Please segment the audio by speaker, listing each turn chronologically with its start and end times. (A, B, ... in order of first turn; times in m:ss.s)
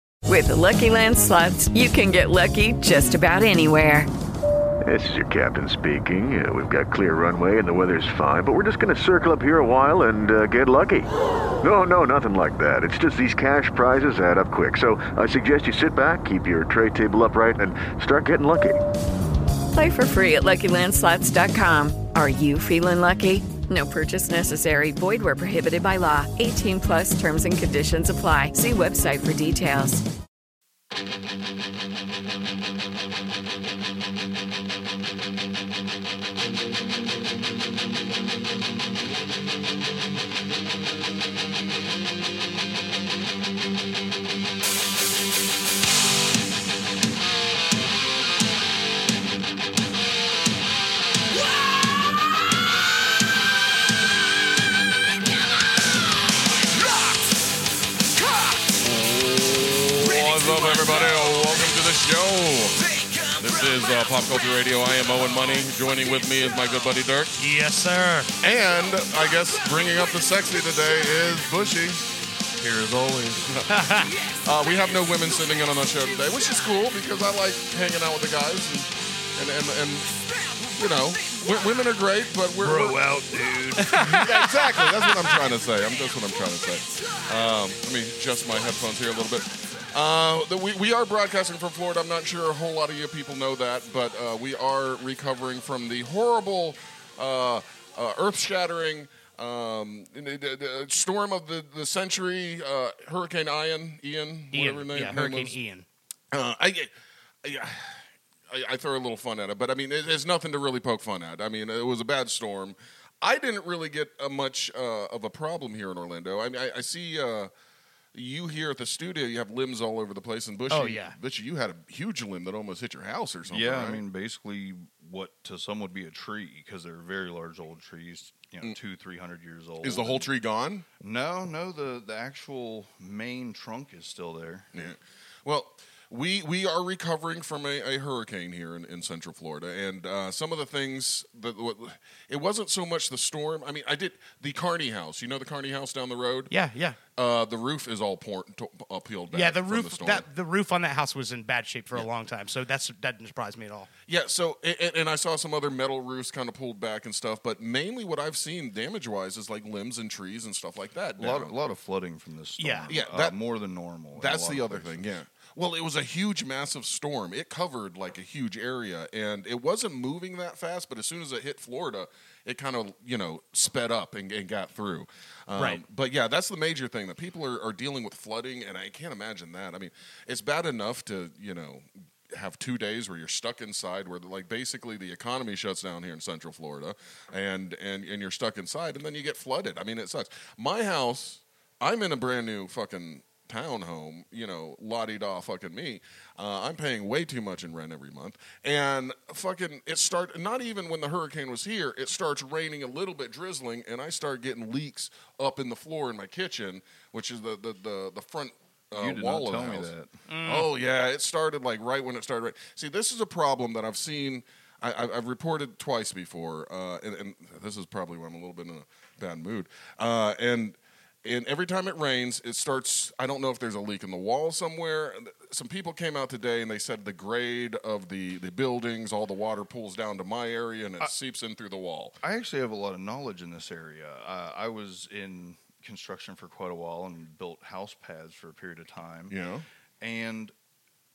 0:00.2-0:04.1 A
0:04.8-0:11.1 B
0:11.6-0:18.8 B
0:19.7-0:30.0 A
0:58.8-1:02.8 C
1:03.4-1:07.4 C
1:07.4-1:08.3 D
1:08.4-1:12.0 C
1:12.6-1:13.6 E
1:13.7-1:14.1 D
1:14.4-1:20.1 C
1:20.8-1:23.0 C
1:22.6-1:24.3 E
1:23.8-1:24.3 D
1:24.0-1:45.6 C
1:44.5-1:45.9 D
1:46.3-1:46.9 C
1:47.4-1:57.5 C
1:58.1-2:04.0 C
2:00.7-2:01.2 D
2:03.5-2:10.3 E
2:09.8-2:10.8 C
2:11.0-2:14.7 E
2:14.7-2:26.5 C
2:26.5-2:27.0 D
2:27.2-2:30.2 C
2:29.3-2:33.9 D
2:34.1-2:41.5 C
2:41.2-2:45.0 E
2:42.6-2:42.9 D
2:42.9-2:43.3 C
2:44.2-3:29.9 C
2:55.6-2:55.8 D
3:28.9-3:30.1 E
3:30.3-3:30.7 D
3:30.4-3:52.2 C
3:52.2-3:59.3 E
3:59.3-3:59.6 C
4:00.0-4:00.5 E